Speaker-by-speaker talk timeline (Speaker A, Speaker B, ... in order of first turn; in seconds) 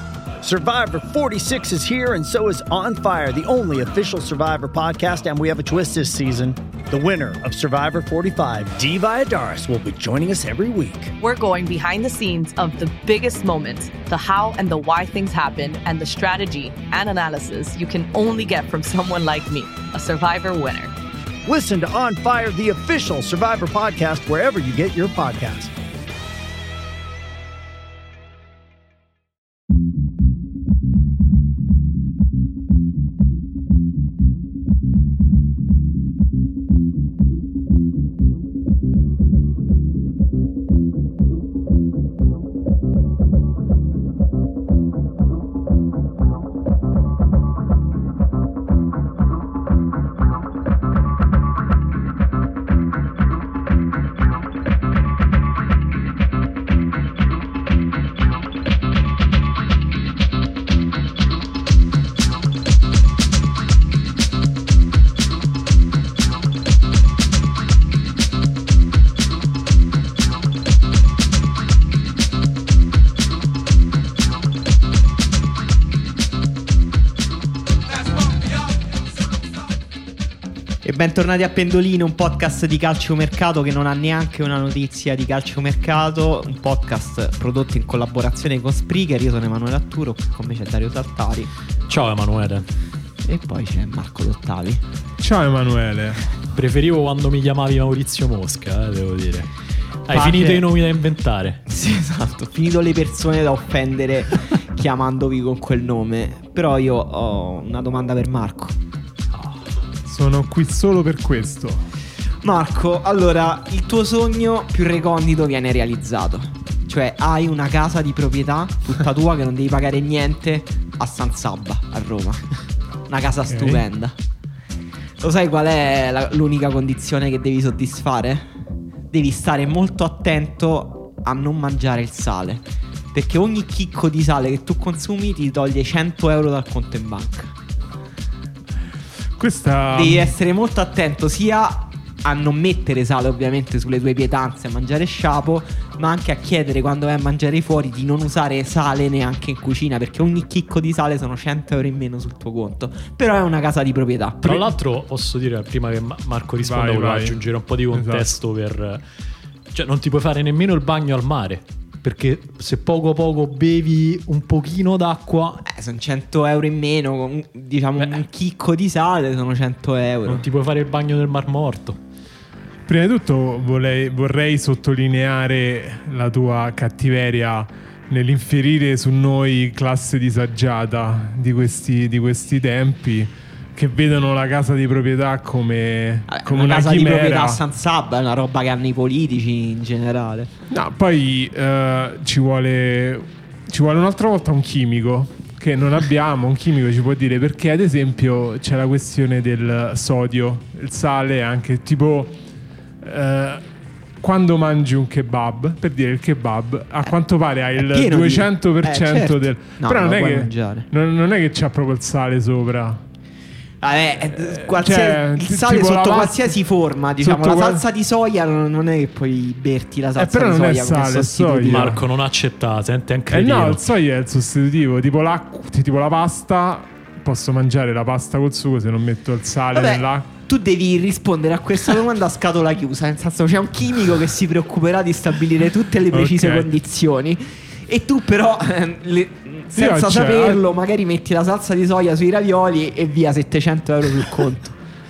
Speaker A: 0.4-11.1, 21.4-25.7
Speaker B: 11.2-20.9
Speaker C: 80.8-91.5, 93.2-94.8, 100.1-100.7, 101.7-108.8, 112.4-122.4, 123.1-124.1, 125.2-128.5, 129.1-137.5, 139.9-154.7, 165.6-170.4, 186.3-190.5, 207.8-210.9, 213.8-222.0, 229.7-244.8
Speaker D: 91.9-92.7, 96.5-99.5, 100.1-101.6, 109.3-109.6, 154.4-159.0, 159.7-165.6, 168.0-168.2, 170.2-172.0, 221.7-223.8
Speaker E: 95.2-96.2, 110.0-111.8, 123.5-123.8, 139.4-140.3, 156.6-157.4, 157.9-158.3, 172.8-187.6, 190.7-202.4, 203.0-203.6, 204.2-213.0, 214.3-216.5, 217.2-217.8, 220.2-222.0, 223.3-230.3, 236.1-236.7, 239.7-240.6